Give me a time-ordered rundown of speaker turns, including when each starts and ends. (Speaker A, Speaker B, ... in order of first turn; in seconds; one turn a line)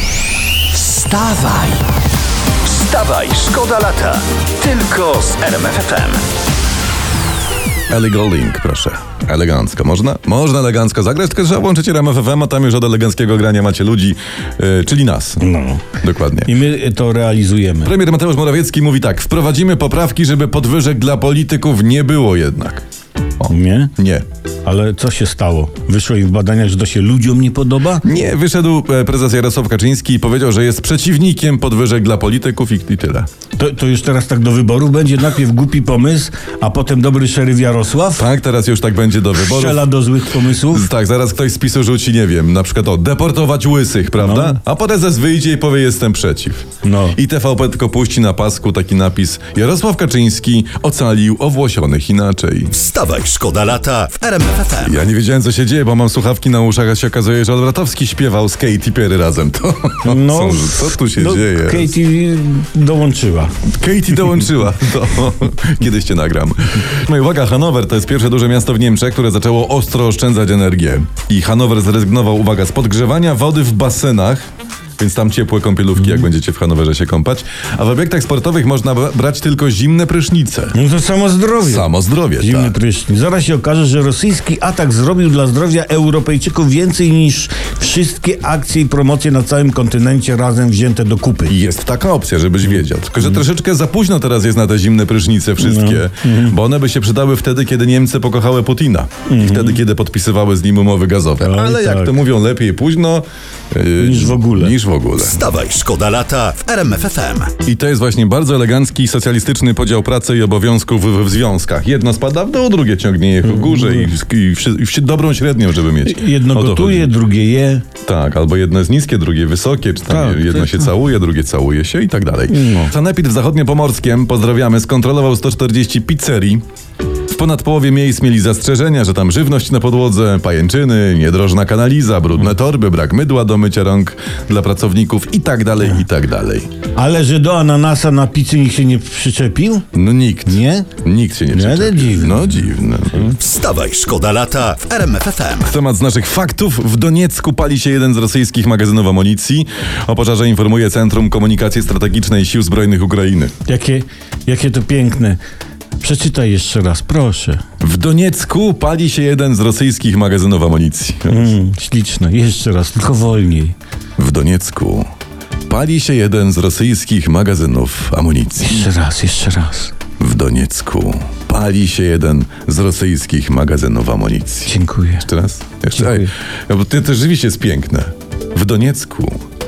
Speaker A: 0.7-1.9
Speaker A: 2.6-6.2
Speaker B: 7.9-15.4
Speaker C: 15.4-15.9
Speaker B: 16.0-16.5
Speaker C: 16.4-17.9
Speaker B: 17.8-22.8
Speaker B: 23.4-24.2
Speaker C: 23.5-23.9
Speaker C: 24.6-28.0
Speaker B: 28.0-33.3
Speaker C: 33.6-38.3
Speaker B: 38.1-39.9
Speaker C: 39.3-40.9
Speaker B: 40.6-52.7
Speaker C: 44.2-44.6
Speaker C: 46.8-47.2
Speaker A: 52.7-55.0
Speaker B: 54.8-61.9
Speaker C: 60.0-63.5
Speaker B: 63.7-74.5
Speaker B: 75.0-80.8
Speaker C: 80.7-91.6
Speaker B: 81.6-82.8
Speaker B: 91.5-105.4
Speaker C: 95.6-96.6
Speaker C: 99.3-99.8
Speaker C: 101.4-102.2
Speaker C: 104.0-104.7
Speaker A: 105.3-107.5
Speaker B: 107.6-117.1
Speaker C: 113.4-114.1
Speaker C: 116.0-117.9
Speaker B: 118.0-126.6
Speaker C: 120.1-120.9
Speaker C: 122.5-122.9
Speaker B: 127.3-136.7
Speaker C: 136.9-139.9
Speaker B: 139.9-143.4
Speaker C: 140.4-140.9
Speaker C: 141.5-142.6
Speaker A: 143.4-145.7
Speaker B: 145.6-153.5
Speaker C: 153.6-155.4
Speaker C: 156.0-157.6
Speaker B: 157.8-161.5
Speaker C: 161.3-163.8
Speaker B: 164.2-165.1
Speaker B: 165.7-168.9
Speaker C: 168.6-169.9
Speaker B: 170.2-174.7
Speaker C: 174.6-175.3
Speaker B: 175.2-179.4
Speaker C: 175.9-176.3